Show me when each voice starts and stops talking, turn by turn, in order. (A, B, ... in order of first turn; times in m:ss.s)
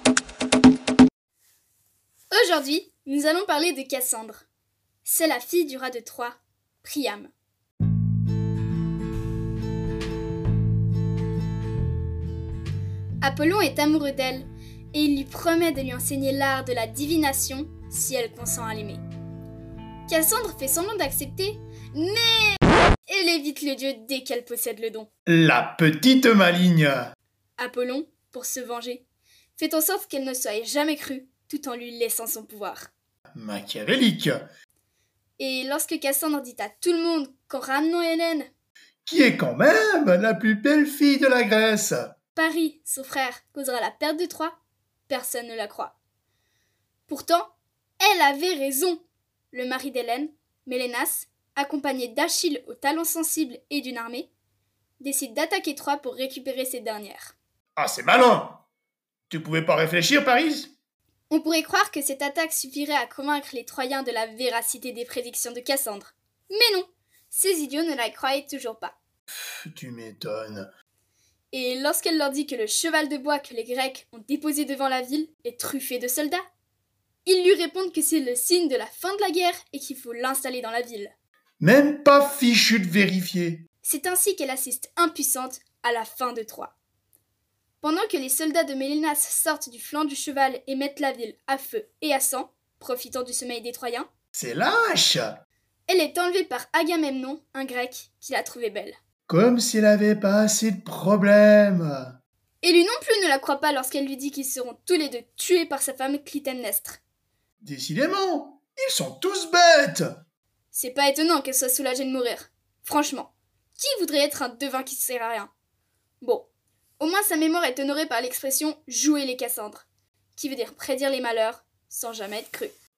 0:02.3-0:04.4 A
0:05.0-0:07.3 A
0:13.2-0:19.0 A
0:20.1-0:25.1 A
0:25.3-0:27.1 B
0:27.6-0:29.0 A
0:29.6-0:32.9 A
0:33.4-0:34.4 B
0:35.4-0:38.5 A
0:39.1-0:42.1 B
0:42.4-0:44.6 A
0:45.1-0:46.0 A
0:47.1-0:54.3 A
0:55.0-0:57.4 A
0:57.8-0:58.6 B
0:59.3-1:00.7 B
1:01.3-1:09.0 A
1:09.6-1:10.7 B
1:11.5-1:16.4 A
1:17.2-1:21.1 A
1:21.6-1:23.6 B
1:23.8-1:26.7 A
1:27.8-1:34.1 A
1:34.4-1:35.4 B
1:35.9-1:39.0 A
1:39.3-1:42.1 B
1:42.6-1:47.0 A
1:47.6-1:50.1 B
1:50.7-1:55.5 A
1:56.2-1:56.5 A
1:57.0-2:02.7 A